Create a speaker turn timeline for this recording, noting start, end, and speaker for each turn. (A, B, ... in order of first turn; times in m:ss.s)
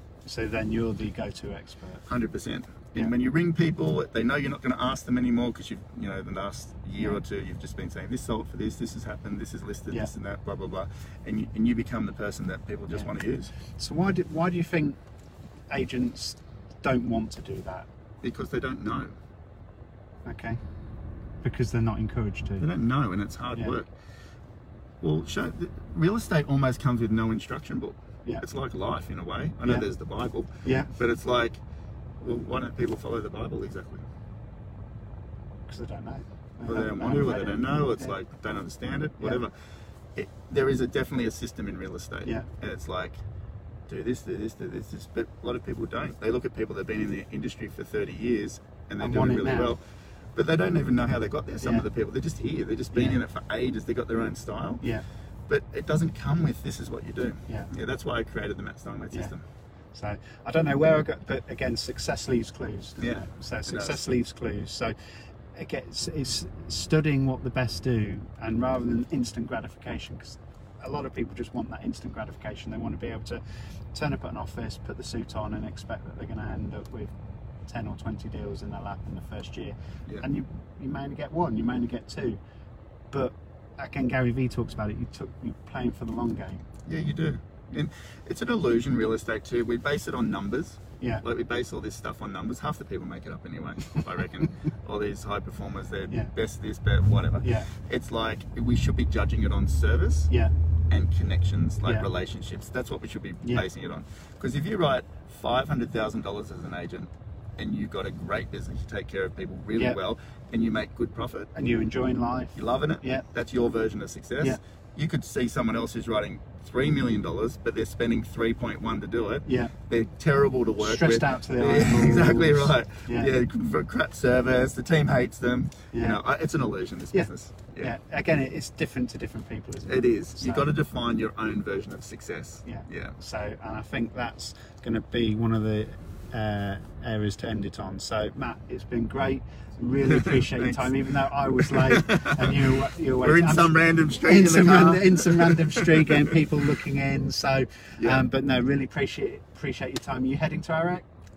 0:00.2-0:02.1 A
0:02.1-0:13.5 B
0:13.8-0:15.0 A
0:15.7-0:17.9 A
0:18.2-0:19.1 B
0:20.2-0:20.6 A
0:21.4-0:22.7 A
0:22.6-0:23.9 B
0:25.0-0:31.6 B
0:30.6-0:30.9 A
0:32.2-0:34.0 B
0:35.7-0:38.1 A
0:36.6-0:39.5 B
0:40.1-0:43.2 B
0:43.9-0:49.8 B
0:49.0-0:49.8 A
0:50.3-0:54.8 B
0:52.9-0:53.2 A
0:55.5-0:59.4 B
0:59.9-1:04.9 A
1:03.0-1:04.0 B
1:05.5-1:13.4 A
1:13.9-1:17.1 A
1:17.7-1:22.4 A
1:23.1-1:26.6 A
1:26.8-1:40.3 B
1:31.0-1:31.2 A
1:37.4-1:37.7 A
1:40.9-1:51.5 B
1:51.5-1:53.3 A
1:52.6-2:07.9 B
1:59.4-1:59.7 A
2:00.8-2:03.3 A
2:05.9-2:06.2 A
2:07.1-2:10.7 A
2:09.9-2:13.2 B
2:12.6-2:31.0 A
2:20.0-2:21.0 B
2:21.5-2:26.6 B
2:28.0-2:28.3 B